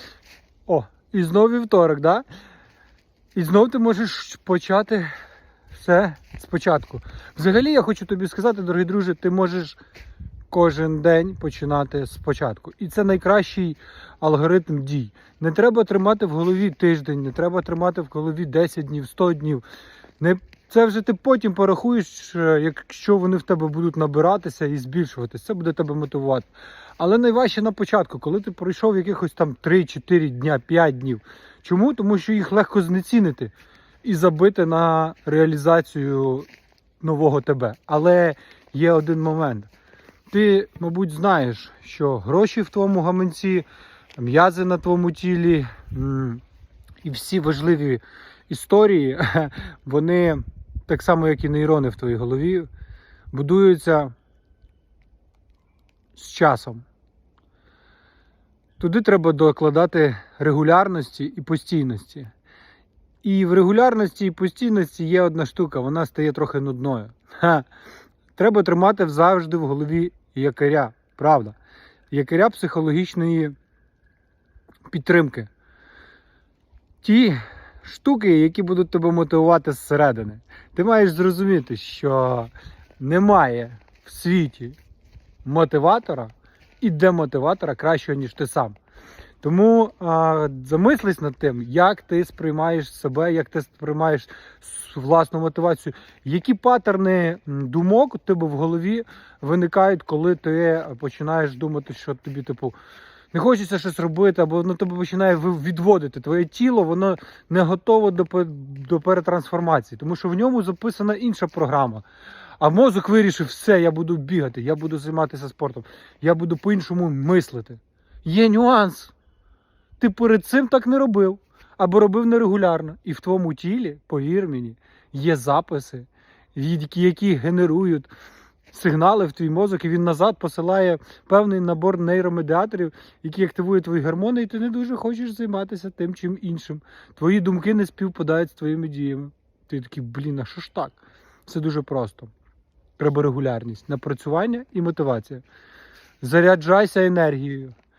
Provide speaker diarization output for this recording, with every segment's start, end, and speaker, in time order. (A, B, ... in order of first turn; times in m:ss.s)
0:00.7-0:02.2 A
0:03.4-0:05.1 A
0:05.7-0:09.8 A
0:10.5-0:19.6 A
0:20.2-0:26.5 A
0:27.0-0:33.5 A
0:34.0-0:36.5 A
0:37.0-0:39.7 A
0:40.3-0:43.7 A
0:44.2-0:46.4 A
0:47.0-0:52.7 A
0:53.3-0:54.1 A
0:56.2-0:56.8 A
0:58.8-1:02.3 A
1:03.2-1:07.7 A
1:08.4-1:11.6 A
1:12.1-1:13.6 A
1:14.9-1:15.5 A
1:17.0-1:24.8 A
1:25.4-1:28.8 A
1:29.4-1:42.8 A
1:43.3-1:52.0 A
1:52.6-1:59.1 A
2:00.0-2:08.1 A
2:08.7-2:22.3 A
2:23.0-2:25.4 A
2:26.2-2:27.8 A